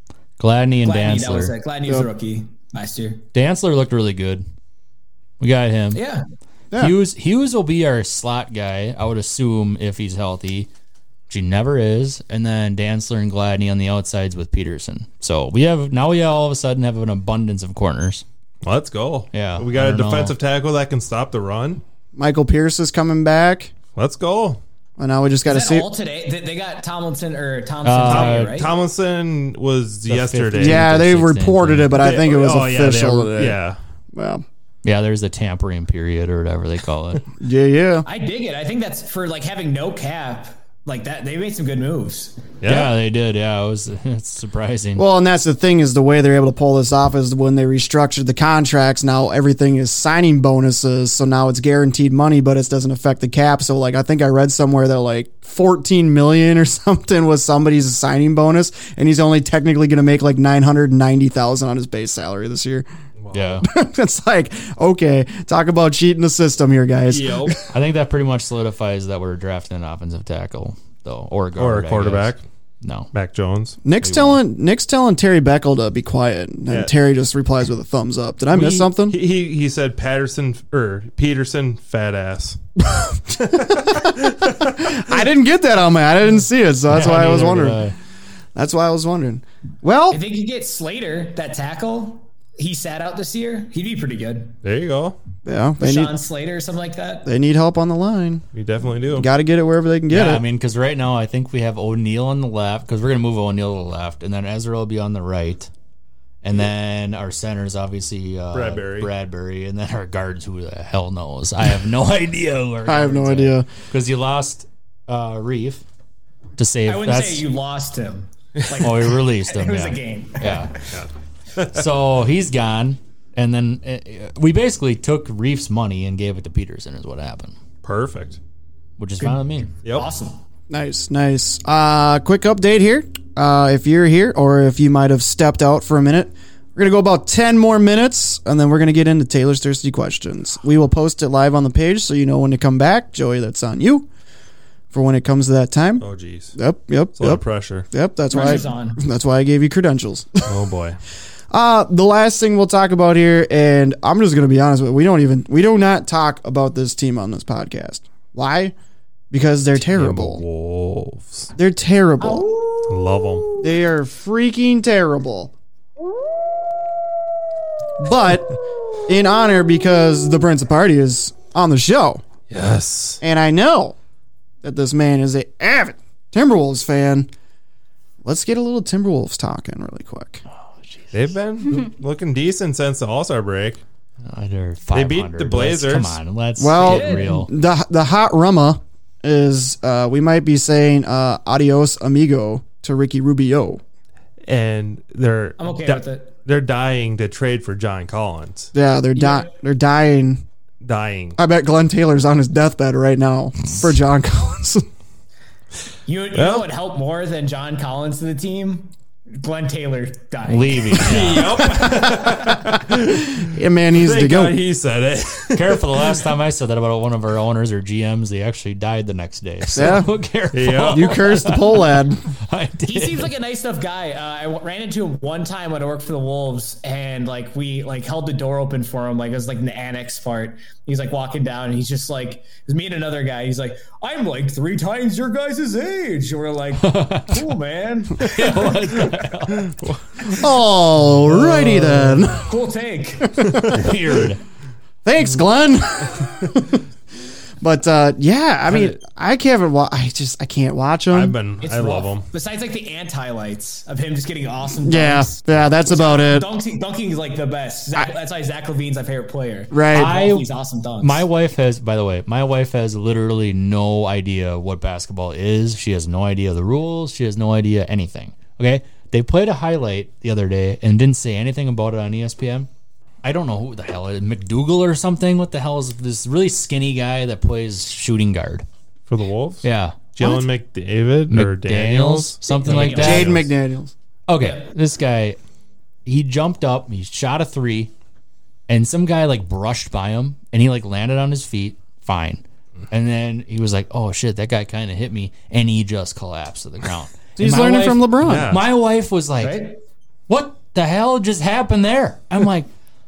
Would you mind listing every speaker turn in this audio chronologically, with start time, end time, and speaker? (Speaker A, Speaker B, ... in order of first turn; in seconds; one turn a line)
Speaker A: 0.4-1.5
Speaker B: 0.8-3.2
Speaker A: 3.3-4.4
Speaker A: 5.4-6.0
Speaker B: 5.9-6.2
Speaker C: 6.7-7.0
Speaker A: 6.8-10.7
Speaker A: 11.3-18.2
Speaker D: 18.6-21.8
Speaker A: 19.3-20.4
Speaker C: 22.2-23.7
Speaker D: 24.0-24.6
Speaker C: 25.0-25.9
Speaker B: 25.4-28.7
Speaker A: 27.8-28.5
Speaker D: 28.1-30.9
Speaker A: 30.1-31.9
Speaker C: 30.6-33.6
Speaker D: 31.9-33.8
Speaker C: 34.1-34.4
Speaker A: 34.8-37.2
Speaker C: 37.4-38.1
Speaker B: 38.1-42.4
Speaker D: 42.6-42.9
Speaker A: 42.6-45.0
Speaker C: 45.0-62.9
Speaker D: 63.2-63.6
Speaker A: 63.3-63.7
Speaker C: 63.6-67.6
Speaker D: 67.1-67.6
Speaker A: 67.7-73.1
Speaker D: 71.6-72.4
Speaker D: 73.1-73.8
Speaker C: 73.8-79.2
Speaker A: 74.0-74.4
Speaker D: 78.5-82.6
Speaker C: 82.8-87.8
Speaker D: 83.5-85.0
Speaker A: 86.9-88.0
Speaker C: 88.5-90.2
Speaker B: 90.1-94.6
Speaker D: 94.6-95.2
Speaker C: 95.5-96.2
Speaker B: 95.8-97.3
Speaker C: 97.2-98.4
Speaker D: 98.5-99.3
Speaker C: 99.1-100.4
Speaker A: 100.1-105.7
Speaker A: 106.4-115.8
Speaker D: 108.5-109.1
Speaker C: 112.9-113.7
Speaker A: 116.6-117.5
Speaker B: 116.9-120.8
Speaker A: 118.8-120.7
Speaker D: 120.9-121.8
Speaker A: 121.7-127.5
Speaker D: 127.8-128.4
Speaker A: 129.0-129.7
Speaker B: 129.9-130.4
Speaker C: 130.7-144.1
Speaker C: 144.9-150.6
Speaker D: 146.0-146.5
Speaker D: 147.2-147.9
Speaker B: 148.3-149.0
Speaker D: 150.5-151.0
Speaker C: 151.5-158.7
Speaker C: 159.3-160.4
Speaker D: 159.8-161.5
Speaker C: 161.6-162.5
Speaker B: 162.2-163.7
Speaker D: 162.9-163.5
Speaker C: 163.6-165.5
Speaker C: 168.0-172.2
Speaker D: 172.5-173.2
Speaker C: 173.2-173.9
Speaker C: 174.6-177.3
Speaker C: 178.2-180.4
Speaker A: 180.7-181.2
Speaker D: 181.1-183.8
Speaker A: 184.2-187.5
Speaker D: 184.9-186.2
Speaker C: 186.6-193.8
Speaker B: 186.8-187.3
Speaker D: 194.4-198.7
Speaker B: 195.6-196.3
Speaker C: 198.7-200.4
Speaker D: 200.8-201.4
Speaker C: 201.4-204.8
Speaker B: 206.1-212.6
Speaker D: 206.3-206.7
Speaker A: 210.5-211.8
Speaker D: 210.9-213.4
Speaker C: 213.4-214.6
Speaker D: 213.9-216.2
Speaker A: 215.6-221.9
Speaker C: 219.7-220.1
Speaker D: 220.5-221.1
Speaker C: 220.8-222.2
Speaker A: 222.4-223.3
Speaker B: 222.9-239.1
Speaker A: 236.8-237.4
Speaker A: 238.2-239.7
Speaker D: 239.6-240.0
Speaker C: 240.3-242.5
Speaker A: 241.3-242.2
Speaker B: 242.4-243.3
Speaker C: 243.3-243.9
Speaker D: 243.4-243.8
Speaker A: 243.6-244.4
Speaker C: 245.1-246.8
Speaker C: 247.6-251.4
Speaker D: 248.7-248.9
Speaker D: 251.1-252.3
Speaker B: 251.6-261.3
Speaker C: 254.8-256.5
Speaker C: 259.7-260.2
Speaker A: 259.9-260.4
Speaker A: 261.0-272.7
Speaker A: 273.2-278.7
Speaker D: 279.1-283.5
Speaker A: 279.6-280.2
Speaker A: 281.3-283.3
Speaker B: 282.4-283.3
Speaker C: 282.8-283.9
Speaker A: 284.3-285.4
Speaker A: 286.1-287.9
Speaker A: 288.7-299.7
Speaker C: 297.4-298.6
Speaker D: 298.2-298.6
Speaker B: 299.4-299.8
Speaker A: 300.3-302.7